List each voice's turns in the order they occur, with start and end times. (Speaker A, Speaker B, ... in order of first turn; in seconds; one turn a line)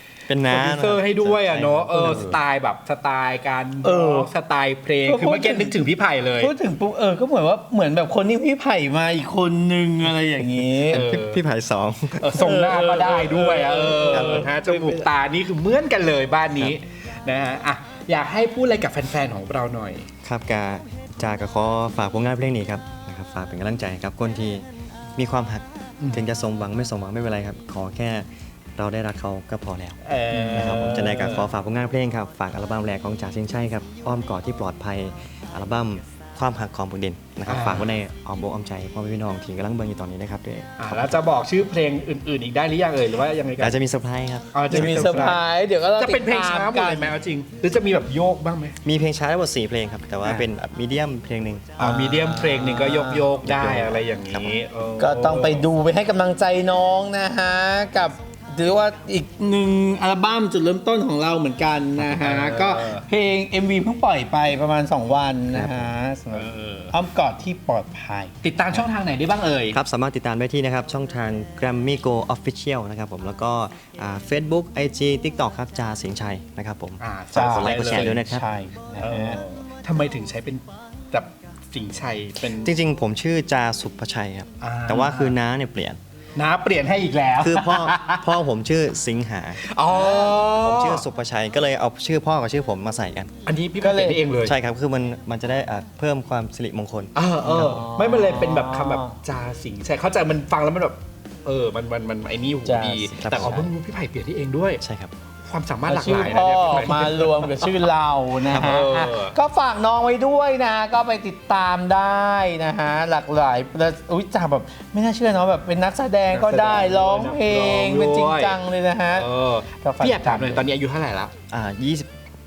Speaker A: 0.3-2.4
Speaker B: 0.5-6.5
Speaker C: 1.9-2.2
Speaker C: 3.8-4.3
Speaker C: 5.1-5.8
Speaker C: 6.4-11.1
Speaker B: 10.9-11.4
Speaker A: 10.9-12.4
Speaker B: 12.2-20.1
Speaker C: 12.4-15.1
Speaker A: 14.1-14.5
Speaker A: 20.2-24.6
Speaker A: 25.2-41.2
Speaker B: 30.1-31.5
Speaker B: 37.5-37.9
Speaker B: 40.8-43.8
Speaker A: 43.6-45.4
Speaker B: 44.5-45.4
Speaker C: 44.7-47.2
Speaker B: 46.0-48.8
Speaker A: 48.9-51.8
Speaker B: 51.8-55.7
Speaker C: 51.8-53.3
Speaker A: 53.1-54.5
Speaker C: 55.0-68.3
Speaker B: 62.0-63.0
Speaker A: 65.5-65.9
Speaker B: 66.3-66.9
Speaker B: 68.4-69.8
Speaker A: 69.7-78.4
Speaker B: 77.0-78.3
Speaker C: 77.3-79.4
Speaker B: 79.0-82.7
Speaker A: 82.6-86.0
Speaker B: 84.6-85.3
Speaker B: 86.4-88.3
Speaker A: 87.4-89.6
Speaker B: 89.7-91.0
Speaker C: 90.0-90.4
Speaker A: 90.6-93.3
Speaker B: 93.5-94.5
Speaker C: 93.8-94.2
Speaker A: 94.4-97.1
Speaker B: 97.2-104.8
Speaker C: 97.4-99.2
Speaker C: 102.7-103.1
Speaker A: 103.1-103.7
Speaker A: 104.8-105.1
Speaker B: 105.5-107.5
Speaker C: 105.9-119.3
Speaker B: 108.5-109.3
Speaker B: 116.3-118.6
Speaker B: 119.1-121.3
Speaker C: 119.8-120.7
Speaker A: 121.5-122.1